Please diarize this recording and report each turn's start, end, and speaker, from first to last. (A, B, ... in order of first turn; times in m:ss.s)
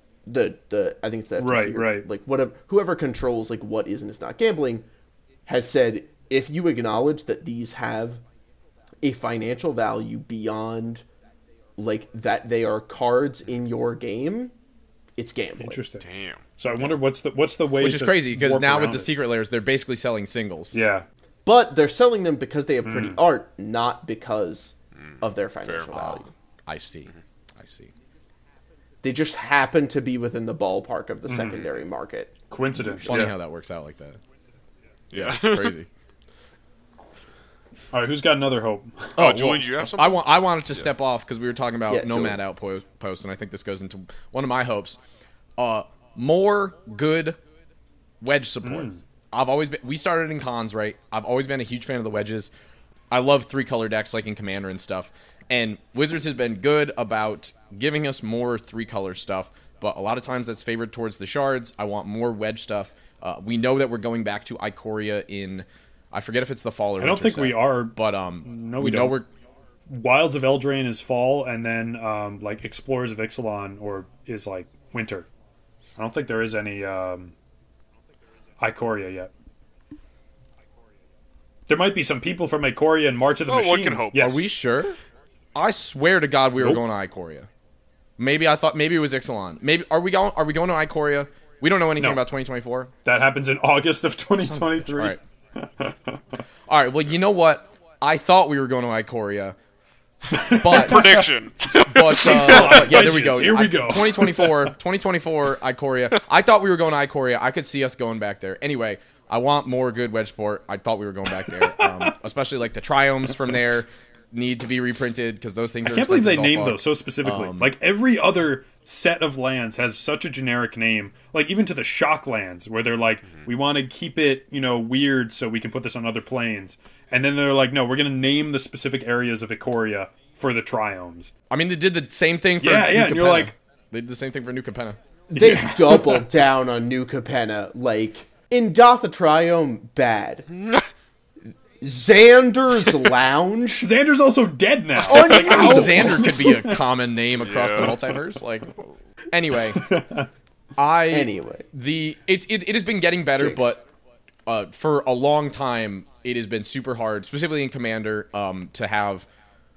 0:00.3-0:04.8 A
0:01.4-0:02.0 B
0:05.5-0:08.2 A
0:09.0-0:11.0 A
0:11.8-0:14.5 A
0:15.2-0:15.8 A
0:15.6-0:16.0 B
0:16.0-0:16.4 C
0:16.6-0:19.1 B
0:17.8-0:20.8 D
0:20.7-0:21.0 B
0:21.4-0:26.3 A
0:22.8-0:23.2 B
0:25.0-0:25.9 C
0:25.9-0:27.9 D
0:29.0-0:32.3 A
0:31.3-0:31.6 B
0:32.5-0:33.2 B
0:32.7-0:34.2 D
0:35.1-0:35.7 C
0:35.1-0:35.9 D
0:37.9-0:39.2 B
0:39.2-0:45.0 D
0:39.2-0:40.9 C
0:41.9-0:42.4 A
0:45.6-0:47.4 D
0:48.2-0:52.5 D
0:48.6-0:49.0 B
0:53.1-1:09.3 D
1:07.0-1:09.2 B
1:09.9-1:15.3 B
1:16.0-1:17.3 B
1:18.6-1:19.3 B
1:21.7-1:24.4 B
1:23.5-1:24.4 C
1:24.1-1:25.0 D
1:25.5-1:27.5 D
1:28.2-1:32.9 D
1:32.0-1:32.2 B
1:33.0-1:36.4 B
1:34.4-1:35.2 D
1:36.7-1:39.6 D
1:40.3-1:41.3 B
1:40.5-1:43.2 C
1:40.5-1:41.2 D
1:41.9-1:57.7 D
1:41.9-1:44.7 B
1:51.4-1:52.1 B
1:55.8-2:11.3 B
2:11.5-2:15.0 D
2:12.6-2:13.5 B
2:15.3-2:20.5 A
2:15.3-2:16.3 B
2:20.5-2:20.8 C
2:21.8-2:23.9 A
2:23.8-2:26.8 B
2:25.0-2:26.4 A
2:25.1-2:28.8 D
2:27.4-2:28.0 C
2:29.3-2:29.9 D
2:29.7-2:30.3 B
2:30.8-2:33.8 D
2:31.1-2:31.6 A
2:33.4-2:33.7 A
2:34.4-2:39.3 D